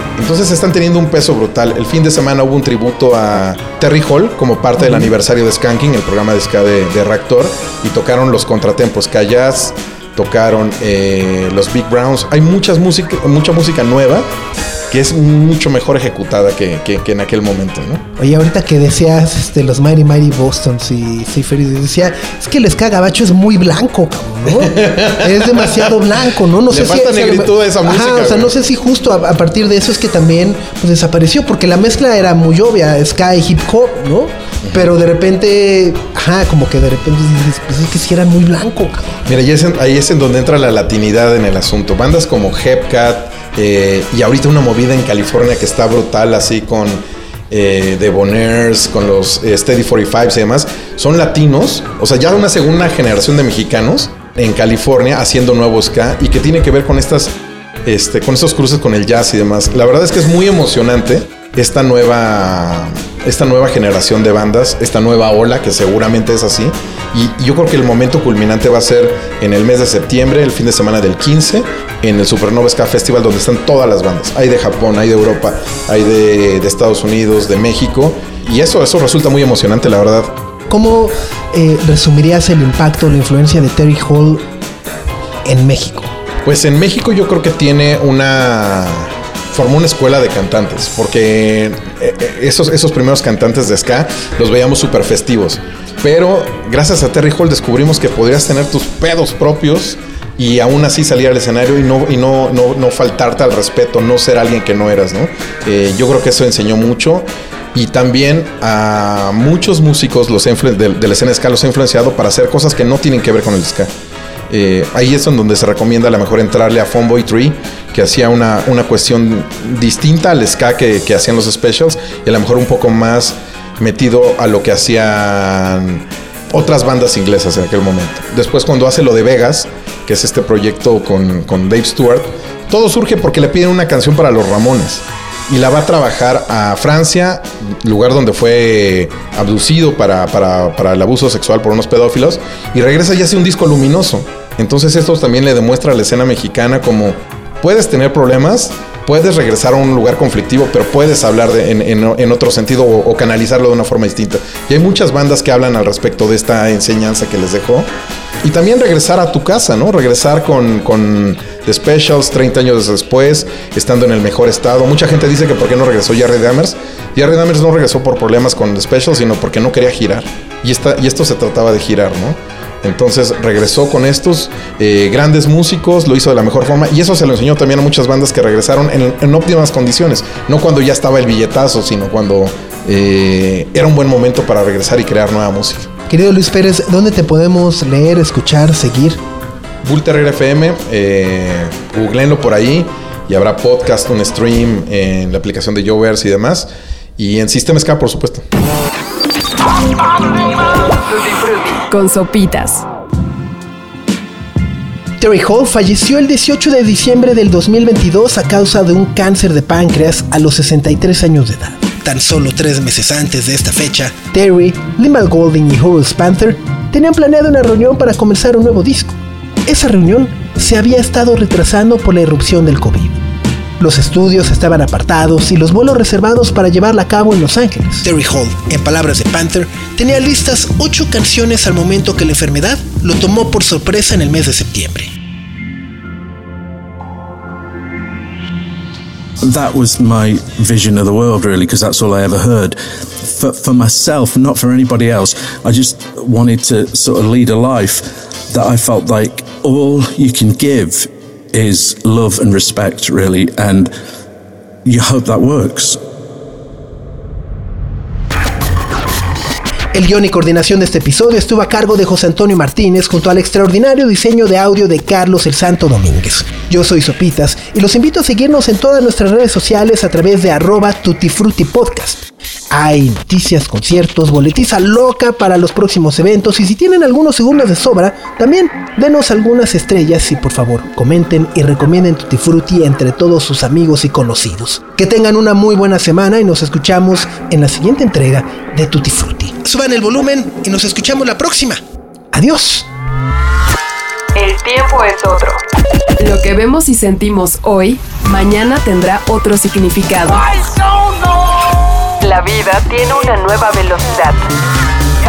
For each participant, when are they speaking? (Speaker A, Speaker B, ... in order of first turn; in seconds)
Speaker A: 0.2-14.3, 14.9-18.0, 24.5-26.1, 26.7-28.5, 34.6-34.9, 39.2-57.3, 57.8-80.3, 86.4-113.9, 114.5-157.9, 158.4-185.9, 189.8-198.4
Speaker B: 4.8-5.1, 18.2-39.2, 80.7-84.4, 85.4-86.1, 186.1-189.2, 205.2-223.2, 223.8-235.1, 259.9-291.8, 292.3-292.9
Speaker C: 201.1-201.8, 294.3-295.6, 300.5-301.3, 302.2-304.4
Speaker D: 201.9-202.8, 296.2-300.5
Speaker E: 239.4-253.9, 254.8-256.0